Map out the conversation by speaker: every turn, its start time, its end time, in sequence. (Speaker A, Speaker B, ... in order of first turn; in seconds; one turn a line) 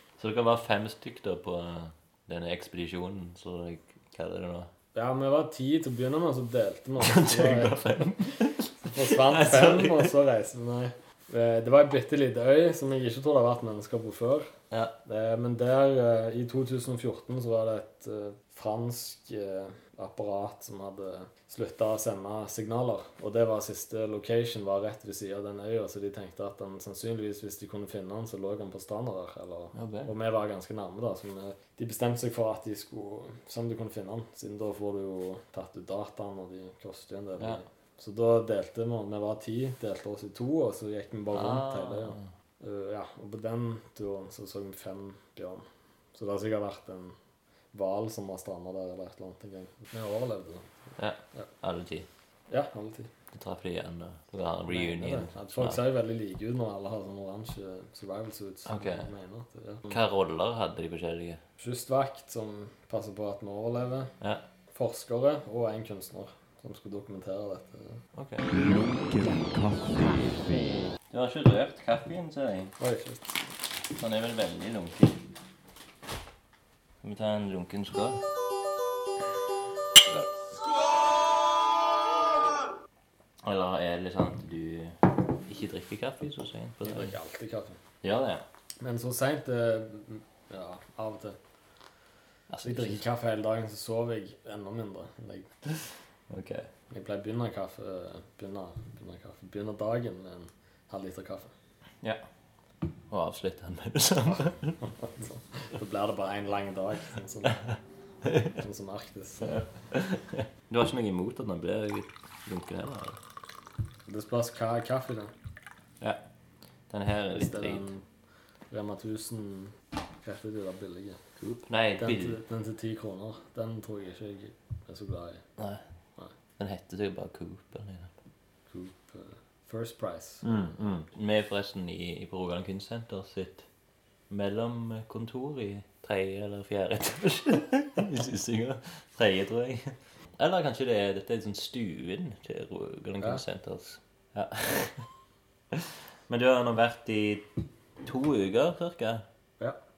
Speaker A: 0.2-4.7
Speaker B: 4.9-8.0
Speaker A: 7.0-10.1
Speaker B: 8.8-14.5
Speaker B: 15.0-47.1
Speaker A: 29.7-30.1
Speaker A: 37.4-37.6
Speaker A: 41.3-42.3
Speaker B: 47.7-50.7
Speaker A: 51.0-52.1
Speaker B: 52.5-53.1
Speaker A: 53.3-55.8
Speaker B: 54.7-60.0
Speaker A: 58.6-59.1
Speaker A: 59.9-61.4
Speaker B: 61.6-64.1
Speaker B: 64.7-68.0
Speaker A: 68.1-68.5
Speaker C: 68.5-70.9
Speaker A: 71.1-72.7
Speaker B: 72.8-73.4
Speaker A: 73.9-75.2
Speaker A: 77.0-78.2
Speaker A: 83.4-87.1
Speaker B: 86.8-87.8
Speaker A: 88.0-88.4
Speaker B: 88.8-91.4
Speaker A: 92.5-93.0
Speaker B: 92.6-95.5
Speaker A: 95.8-96.7
Speaker B: 96.9-101.5
Speaker A: 103.1-104.9
Speaker B: 104.3-107.6
Speaker A: 108.2-108.6
Speaker B: 108.5-109.6
Speaker A: 109.4-113.2
Speaker B: 114.0-115.3
Speaker A: 116.9-117.9
Speaker B: 117.3-118.0
Speaker B: 118.7-121.2
Speaker A: 121.4-122.4
Speaker B: 122.0-125.4
Speaker A: 125.6-125.8
Speaker A: 126.6-128.1
Speaker B: 128.7-130.4
Speaker A: 130.4-133.7
Speaker A: 134.3-145.0
Speaker A: 145.7-147.5
Speaker A: 148.0-149.2